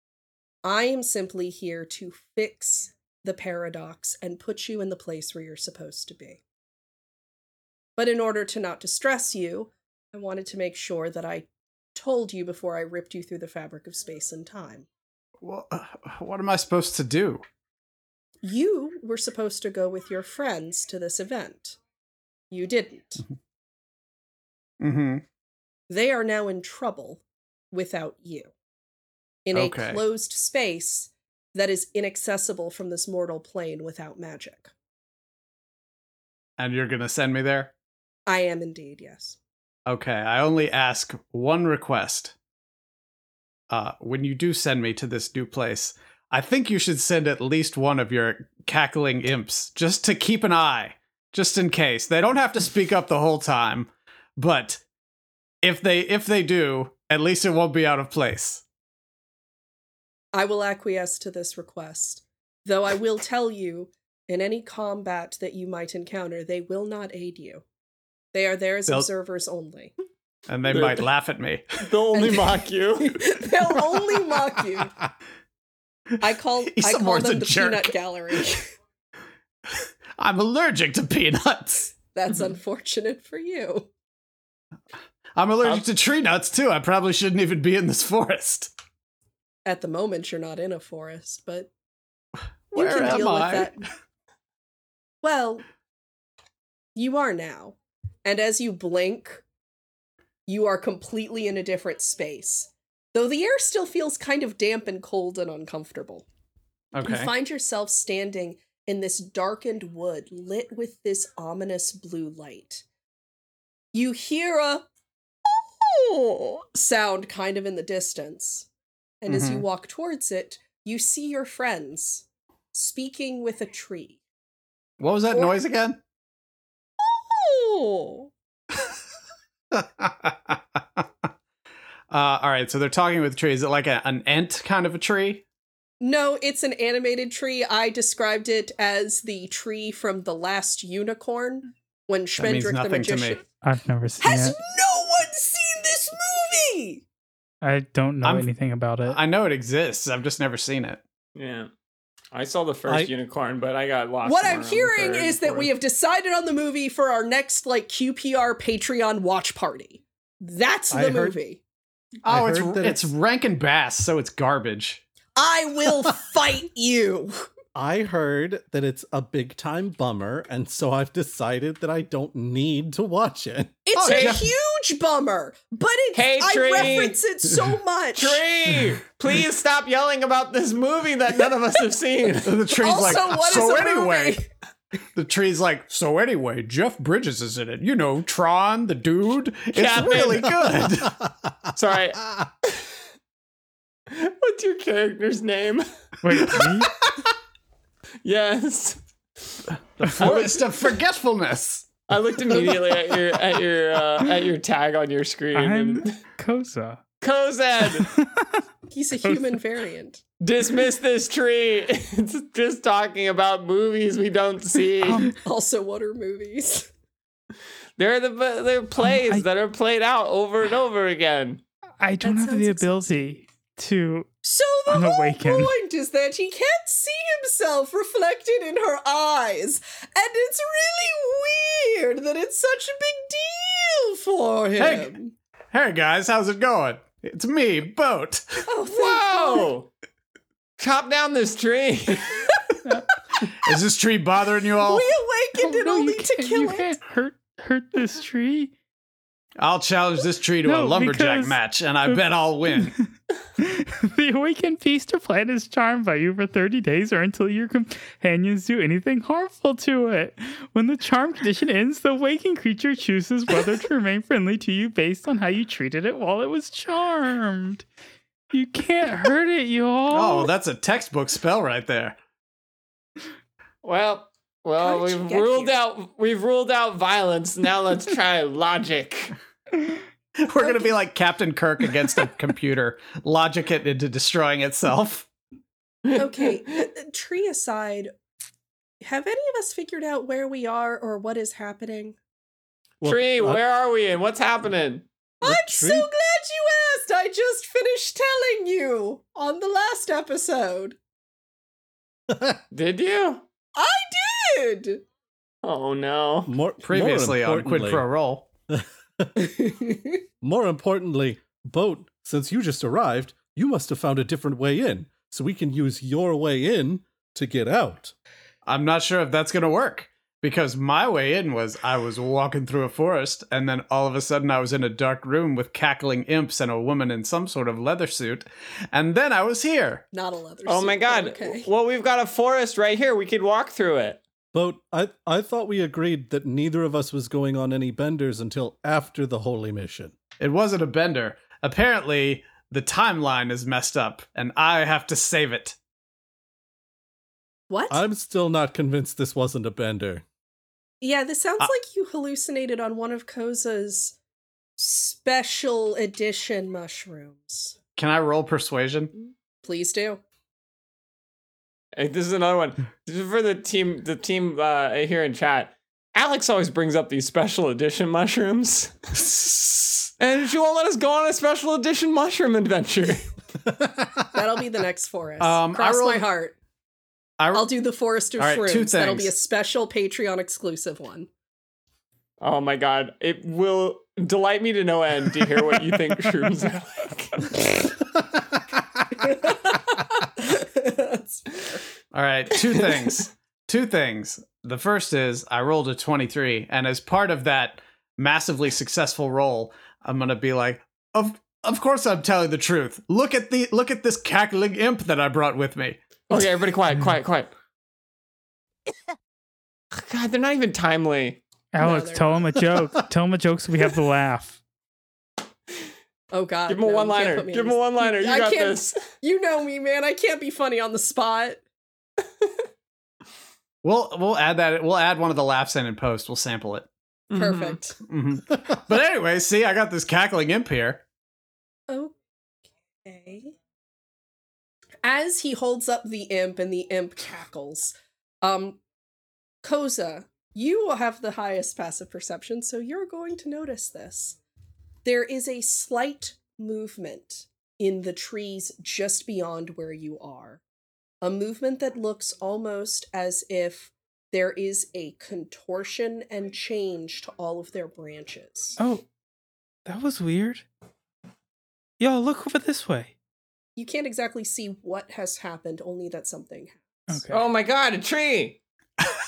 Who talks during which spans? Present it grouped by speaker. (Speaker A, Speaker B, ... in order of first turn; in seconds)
Speaker A: 0.6-6.4, 8.0-14.9, 18.4-21.8, 22.5-23.2, 25.9-28.5, 29.4-34.7, 38.3-39.4, 60.3-67.6, 68.3-69.9, 72.1-75.0, 76.2-78.7, 81.9-83.9, 89.7-91.7, 92.7-93.8, 95.2-95.6, 96.9-99.4, 100.5-106.2, 107.0-112.8, 113.9-114.9, 115.5-118.7, 119.2-124.2, 127.0-128.3, 136.0-143.4, 144.2-147.0, 154.2-161.6, 165.3-167.5, 173.8-178.4, 182.8-184.5, 208.9-210.2, 215.3-216.9, 222.2-223.1, 224.4-235.3, 238.7-239.7, 244.8-246.9, 274.8-275.8, 286.1-288.1, 289.0-292.2, 295.4-301.0, 303.8-305.0, 309.4-310.2, 330.1-331.7, 347.7-348.0, 351.0-354.2, 354.8-357.8, 359.6-360.2, 374.3-376.6, 377.5-381.3, 389.2-391.8, 411.8-412.3, 416.3-421.6, 427.3-428.0, 431.9-432.1, 433.0-433.5, 435.0-438.8, 439.6-444.4, 445.0-450.6, 451.2-458.8, 463.8-467.0
Speaker B: 15.4-17.4, 24.8-25.2, 29.5-30.0, 36.6-37.7, 39.9-42.3, 43.7-54.8, 55.6-58.6, 70.5-71.8, 76.7-77.9, 79.7-81.9, 85.3-88.7, 92.7-93.7, 106.9-107.3, 119.3-119.6, 125.0-126.0, 129.7-131.1, 132.1-135.4, 142.4-143.4, 148.2-148.5, 149.1-151.0, 162.2-165.0, 174.0-174.5, 182.4-184.4, 185.1-191.1, 200.0-201.9, 234.8-235.1, 235.7-238.6, 243.6-245.1, 249.6-252.9, 270.1-272.2, 280.4-285.3, 306.8-308.5, 318.6-330.0, 340.4-345.8, 358.0-359.1, 375.4-376.2, 377.4-377.7, 378.4-379.3, 392.1-406.0, 423.8-426.9, 428.1-431.0
Speaker C: 70.7-71.0, 71.8-73.2, 151.3-151.7, 152.3-155.7, 174.0-174.4, 176.1-177.2, 178.2-182.6, 189.7-190.6, 191.7-192.9, 194.1-195.8, 198.2-199.6, 200.2-200.6, 202.1-206.2, 207.2-208.1, 210.4-215.3, 218.0-221.6, 238.9-239.9, 240.8-242.3, 273.8-279.3, 293.0-295.1, 302.7-303.4, 305.6-306.5, 330.6-334.2, 361.9-373.3, 382.4-387.5, 406.3-407.5, 409.9-411.4, 416.7-419.0, 427.3-427.8, 467.3-468.6
Speaker D: 143.6-144.6, 147.6-149.2, 196.2-197.0, 205.5-207.0, 207.9-208.6, 209.2-209.6, 215.0-215.3, 219.1-219.4, 222.0-224.3, 224.9-225.7, 245.6-248.7, 250.6-252.2, 252.8-253.1, 253.6-267.9, 268.5-270.5, 411.7-414.6, 458.8-459.1, 459.8-460.6, 462.0-463.1, 467.1-467.4
Speaker E: 160.9-161.3, 162.3-163.1, 167.7-173.9, 190.8-191.7, 200.0-200.6, 293.0-293.6, 295.4-296.1, 302.3-302.6, 306.4-308.0, 308.7-309.3, 310.4-318.1, 334.5-340.1, 347.9-350.2, 373.7-374.2